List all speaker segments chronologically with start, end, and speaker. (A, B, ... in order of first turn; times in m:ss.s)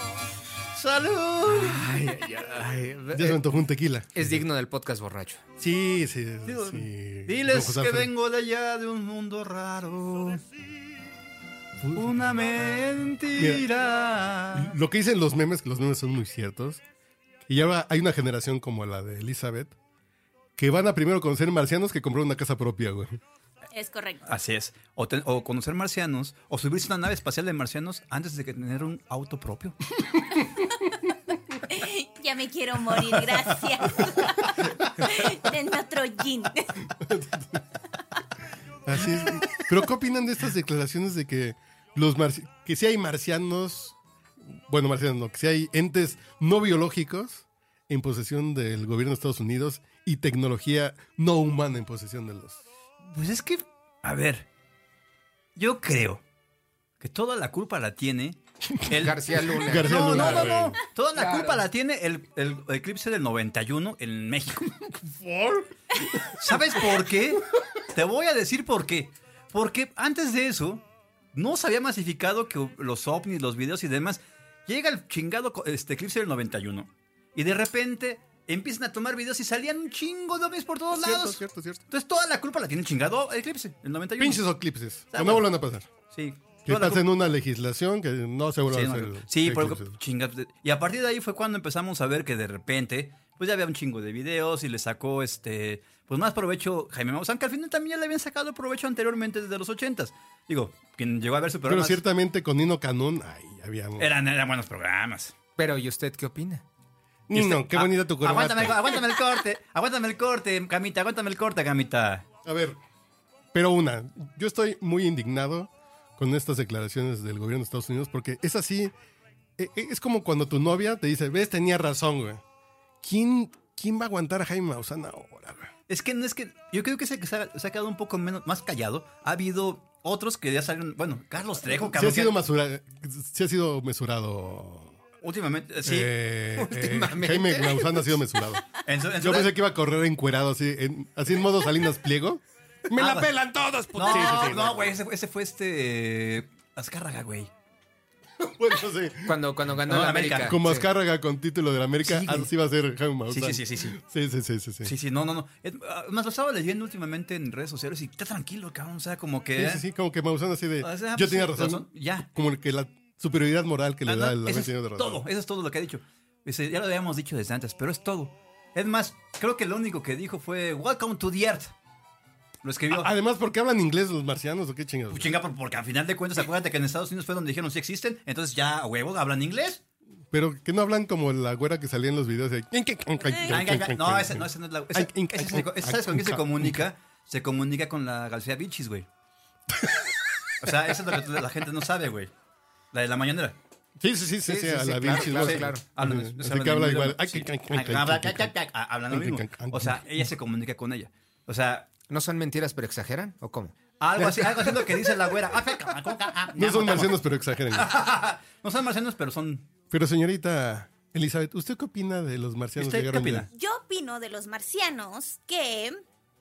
0:00.8-0:01.9 A
0:01.7-0:03.4 B
0:03.1-0:04.4 C
0:04.1-0:05.4 B
0:05.6-0:08.1 C
0:06.5-0:10.4 A
0:11.8-0:12.5 C
0:12.0-0:14.7 A
0:13.3-0:13.7 C
0:14.5-0:16.8 C
0:17.5-0:19.7 C
0:20.6-0:23.2 C
0:23.7-0:24.2 D
0:24.3-0:29.8 A
0:31.7-0:36.8 D
0:37.0-0:37.6 C
0:38.8-0:44.0 C
0:44.5-0:52.6 C
0:53.1-0:54.5 A
0:55.6-0:56.2 A
0:57.0-1:04.7 A
0:58.7-0:59.1 C
0:58.9-1:00.6 B
0:59.6-1:00.8 C
1:01.1-1:01.6 B
1:05.0-1:06.5 C
1:06.4-1:24.4 A
1:21.0-1:21.8 C
1:24.2-1:25.9 C
1:25.1-1:25.5 A
1:26.1-1:27.0 A
1:26.6-1:30.0 C
1:28.7-1:42.0 A
1:41.7-1:44.1 C
1:44.0-1:45.3 A
1:45.6-1:46.6 B
1:47.3-1:48.9 C
1:47.3-1:52.2 A
1:52.4-1:52.8 C
1:53.5-1:58.9 C
1:59.6-2:02.4 C
2:03.0-2:05.7 C
2:05.9-2:12.4 A
2:11.8-2:15.0 C
2:15.2-2:16.1 A
2:15.8-2:18.7 C
2:16.6-2:18.2 B
2:18.8-2:19.5 A
2:19.2-2:25.0 C
2:23.0-2:23.3 A
2:24.0-2:27.5 A
2:28.4-2:29.4 C
2:29.2-2:30.9 B
2:29.8-2:30.6 A
2:30.4-2:34.9 C
2:32.0-2:32.5 A
2:33.3-2:34.0 A
2:34.8-2:39.8 A
2:39.6-2:45.2 C
2:40.8-2:42.3 A
2:44.1-2:51.7 A
2:52.6-2:53.1 A
2:52.9-2:55.3 C
2:55.1-2:59.8 A
3:00.3-3:06.8 C
3:03.5-3:09.1 A
3:09.7-3:10.1 C
3:10.6-3:12.3 A
3:12.9-3:13.6 A
3:14.0-3:18.6 C
3:14.5-3:15.8 B
3:15.1-3:21.9 A
3:19.1-3:20.3 C
3:22.1-3:23.8 B
3:24.0-3:27.2 A
3:26.6-3:27.9 C
3:27.7-3:29.7 A
3:29.9-3:33.5 C
3:32.8-3:33.5 A
3:33.5-3:36.0 D